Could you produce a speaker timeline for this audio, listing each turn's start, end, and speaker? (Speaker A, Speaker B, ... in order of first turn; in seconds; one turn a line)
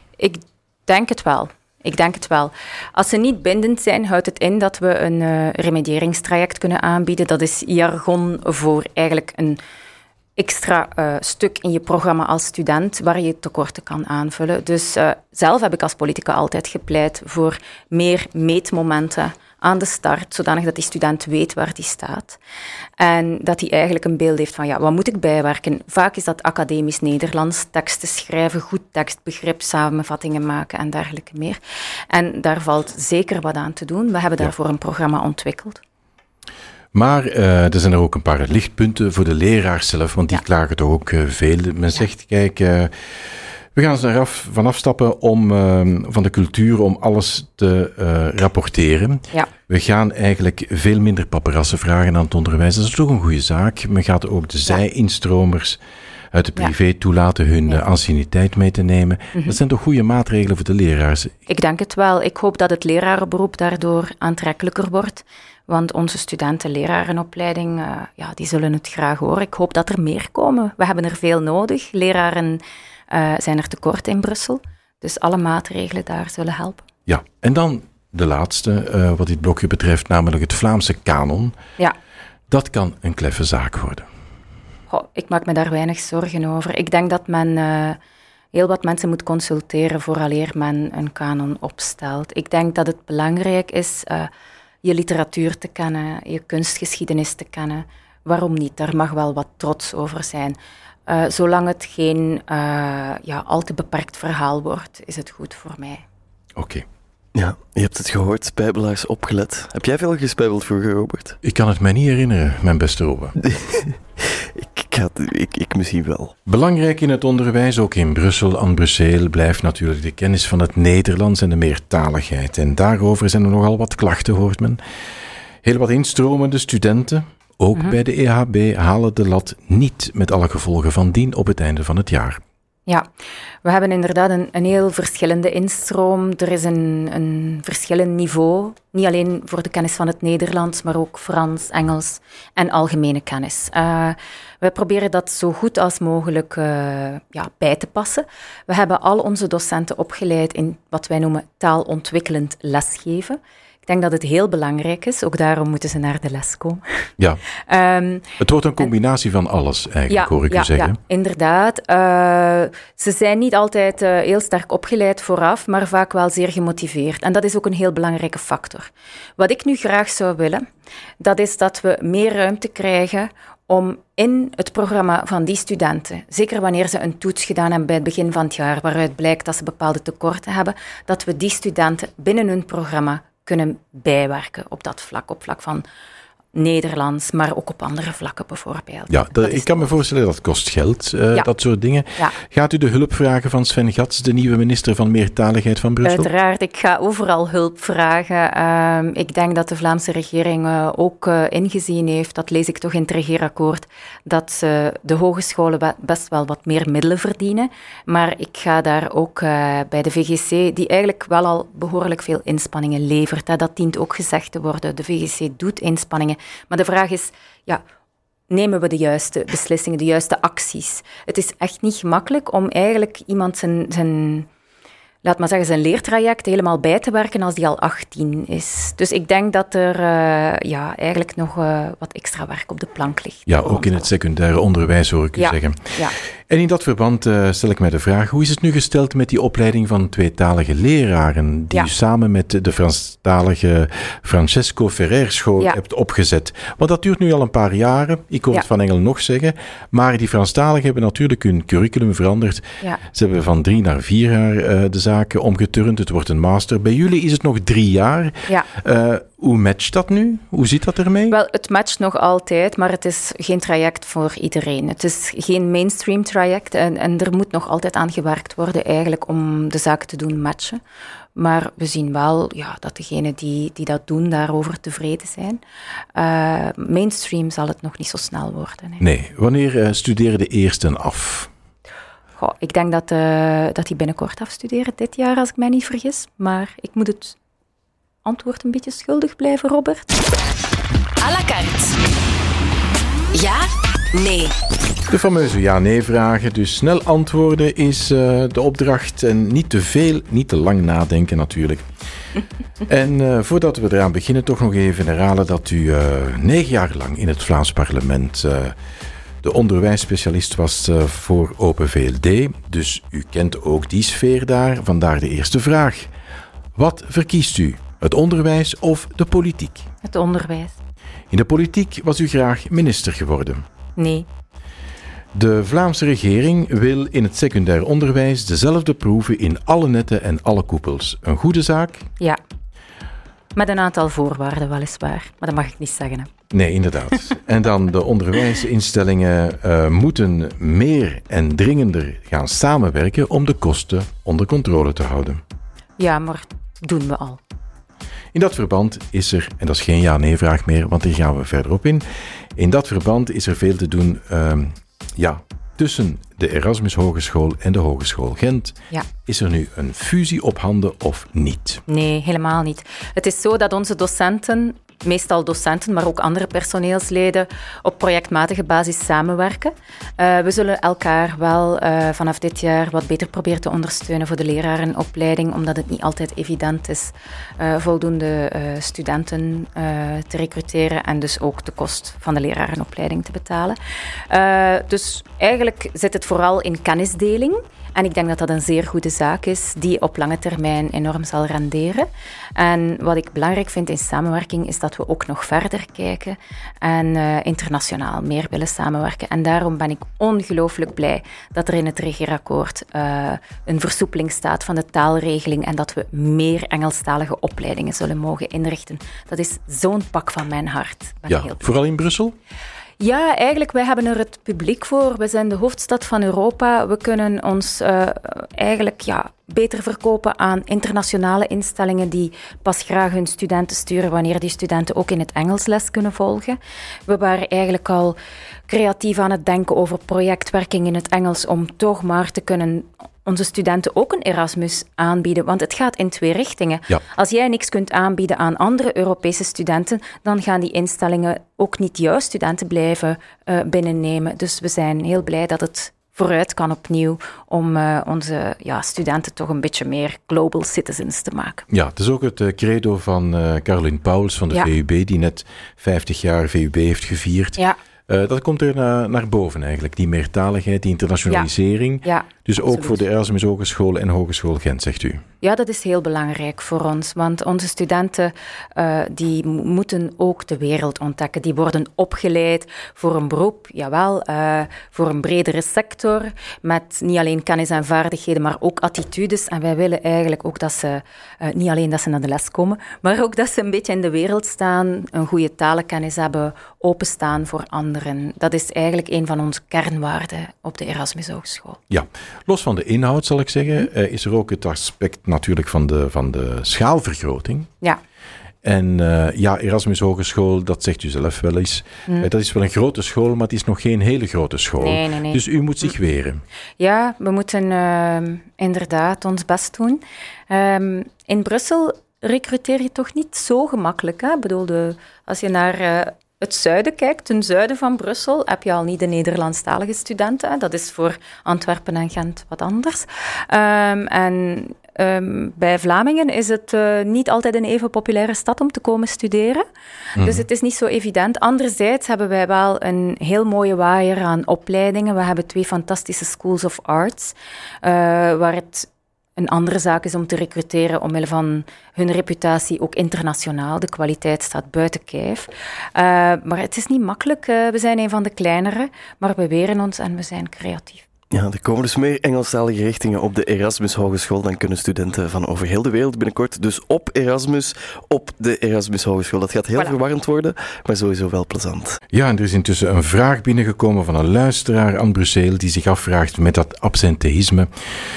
Speaker A: 0.2-9.6
Speaker A: 10.4-22.4
Speaker A: 23.0-31.6
Speaker A: 32.1-35.8
Speaker B: 36.9-42.9
Speaker B: 43.7-55.8
Speaker B: 56.3-61.4
Speaker A: 59.3-59.6
Speaker A: 61.5-76.8
Speaker B: 77.1-81.5
Speaker B: 82.5-84.1
Speaker A: 84.9-88.0
Speaker A: 88.5-94.3
Speaker A: 94.8-106.0
Speaker B: 106.6-106.8
Speaker C: 107.3-111.4
Speaker B: 111.4-113.4
Speaker C: 113.4-116.3
Speaker B: 116.5-124.8
Speaker B: 125.6-132.4
Speaker A: 133.6-157.1
Speaker A: 157.7-158.9
Speaker B: 158.4-161.0
Speaker A: 160.1-170.7
Speaker A: 171.2-185.8
Speaker A: 186.5-189.9
Speaker B: 189.1-196.3
Speaker A: 196.0-217.8
Speaker A: 218.5-224.5
Speaker A: 225.2-233.9
Speaker B: 233.5-261.4
Speaker A: 235.4-236.2
Speaker A: 261.3-270.8
Speaker A: 271.3-275.6
Speaker A: 276.1-279.0
Speaker B: 279.0-281.5
Speaker A: 282.4-287.4
Speaker A: 288.2-290.1
Speaker D: 291.2-291.9
Speaker D: 293.3-294.5
Speaker B: 295.1-301.8
Speaker B: 302.9-308.8
Speaker B: 309.4-316.1
Speaker B: 316.8-319.9
Speaker A: 320.0-320.8
Speaker B: 321.3-323.6
Speaker A: 323.9-324.3
Speaker B: 325.3-332.1
Speaker A: 333.6-336.3
Speaker B: 336.5-345.4
Speaker A: 346.0-347.4
Speaker B: 348.3-352.0
Speaker B: 352.6-361.8
Speaker A: 361.9-383.8
Speaker A: 384.3-411.6
Speaker B: 411.3-412.3
Speaker A: 413.0-428.2
Speaker A: 428.7-451.7
Speaker B: 451.7-465.2
Speaker A: 462.0-463.0
Speaker A: 465.4-491.8
Speaker B: 491.9-497.7
Speaker B: 498.6-506.4
Speaker A: 504.8-505.4
Speaker A: 506.8-529.6
Speaker A: 530.1-551.0
Speaker B: 530.2-530.4
Speaker C: 551.3-562.0
Speaker B: 562.1-567.7